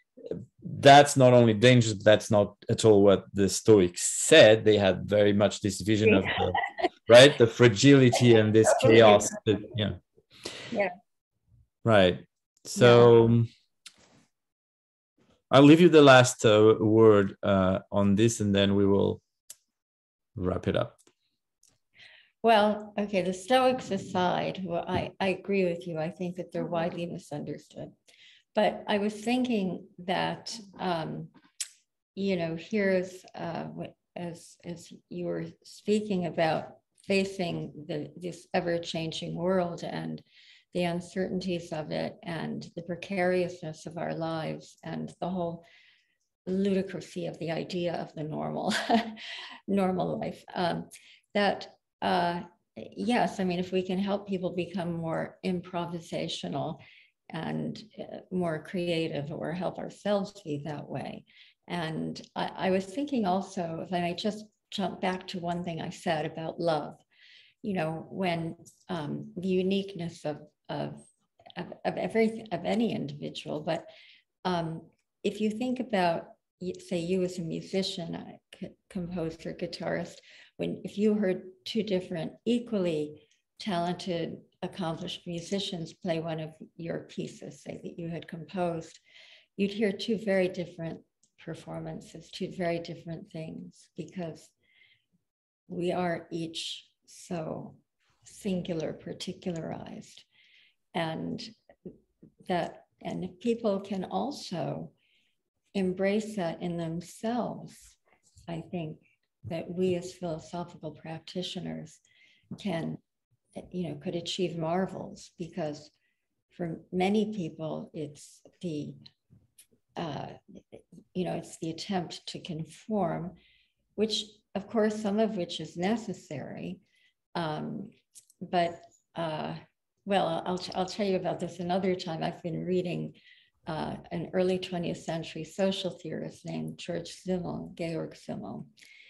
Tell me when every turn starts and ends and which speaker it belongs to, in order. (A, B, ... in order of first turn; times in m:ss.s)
0:00.3-0:10.0 A
0:08.7-0:09.3 B
0:11.8-0:13.5 A
0:12.8-0:13.2 B
0:15.5-0:19.2 A
0:20.4-0:21.0 A
0:22.4-0:27.9 B
0:28.5-0:31.3 B
0:32.1-0:45.6 B
0:46.4-1:07.0 B
1:07.6-1:13.9 B
1:14.4-1:29.0 B
1:29.6-1:34.5 B
1:35.7-1:40.3 B
1:40.9-1:41.5 B
1:42.4-1:44.9 B
1:45.7-1:52.0 B
1:52.6-1:53.0 B
1:53.6-1:55.9 B
1:56.5-1:59.0 B
2:00.0-2:03.3 B
2:04.0-2:06.8 B
2:07.3-2:13.1 B
2:13.7-2:18.7 B